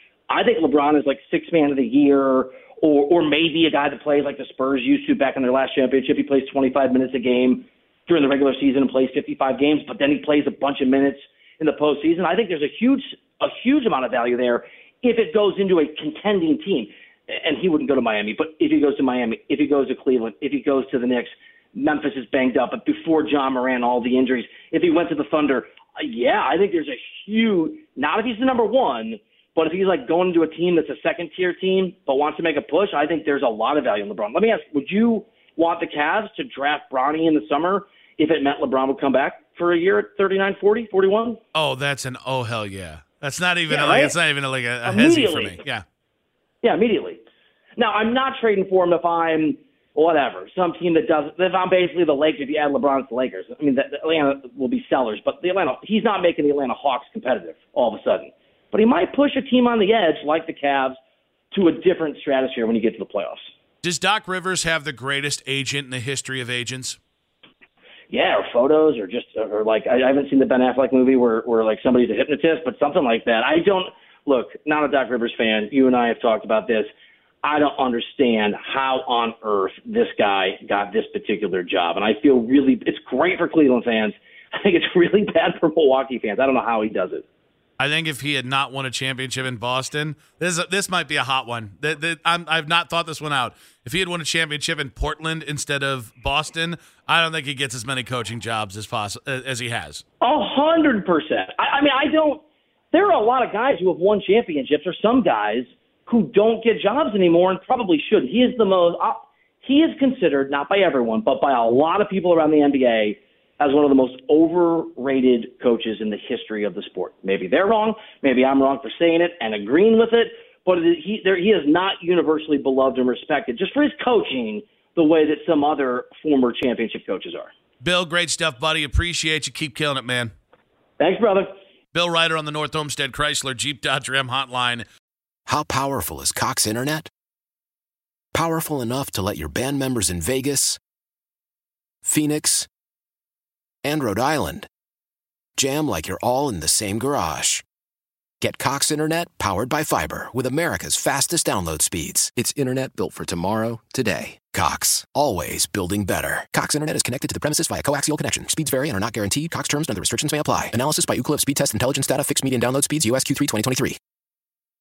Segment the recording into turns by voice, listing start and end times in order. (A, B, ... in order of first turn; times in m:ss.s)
0:00.3-0:41.4 A
0:41.5-0:45.8 B
0:43.7-0:44.1 A
0:44.9-0:45.6 A
0:46.6-0:47.2 A
0:47.8-1:01.0 A
1:01.5-1:03.4 A
1:03.8-1:07.0 B
1:08.1-1:16.9 A
1:17.4-1:27.2 A
1:27.8-1:40.0 B
1:40.2-2:07.5 A
2:07.8-2:10.3 B
2:11.0-2:11.5 A
2:11.9-2:14.8 B
2:15.5-2:17.1 C
2:18.3-2:20.8 C
2:22.0-2:22.7 C
2:23.8-2:24.7 C
2:25.6-2:27.6 C
2:28.4-2:44.0 C